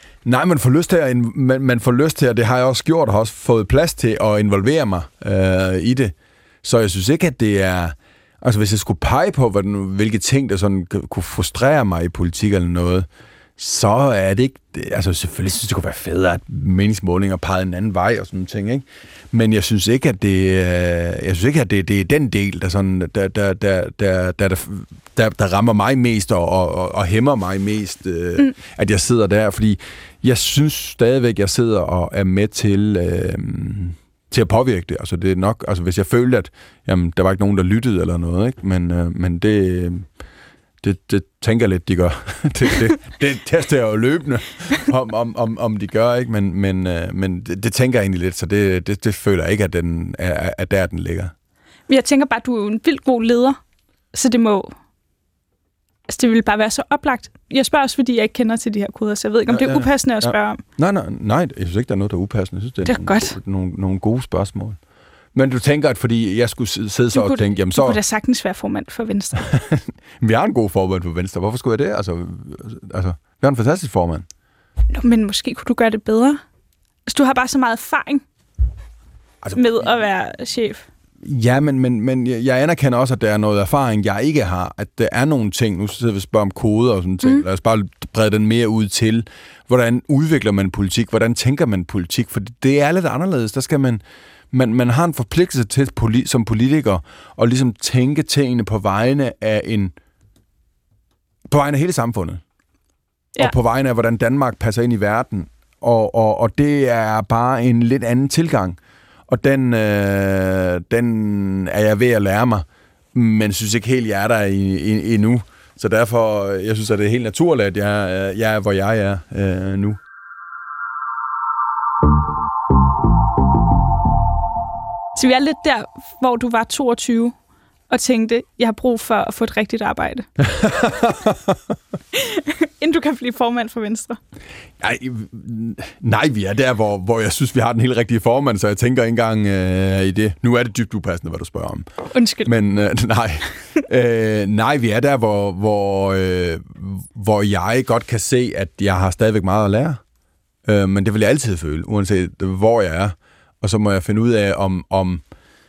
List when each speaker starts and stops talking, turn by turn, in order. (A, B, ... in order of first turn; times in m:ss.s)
0:00.2-0:40.1 A
0:40.8-0:51.3 A
0:51.9-0:53.6 B
0:54.1-0:54.7 B
0:56.1-1:00.6 B
0:59.5-1:04.8 A
1:02.8-1:03.4 B
1:05.3-1:08.0 A
1:07.1-1:09.5 B
1:09.4-1:14.2 A
1:14.9-1:16.4 B
1:17.1-1:18.2 B
1:19.5-1:20.8 B
1:21.2-1:39.9 A
1:41.5-1:42.4 A
1:43.4-1:48.8 A
1:49.3-2:00.0 A
2:05.1-2:07.4 B
2:07.9-2:10.3 B
2:10.4-2:11.6 A
2:12.1-2:14.2 B
2:14.8-2:21.9 A
2:22.1-2:22.5 B
2:22.4-2:30.0 A
2:30.6-2:35.2 A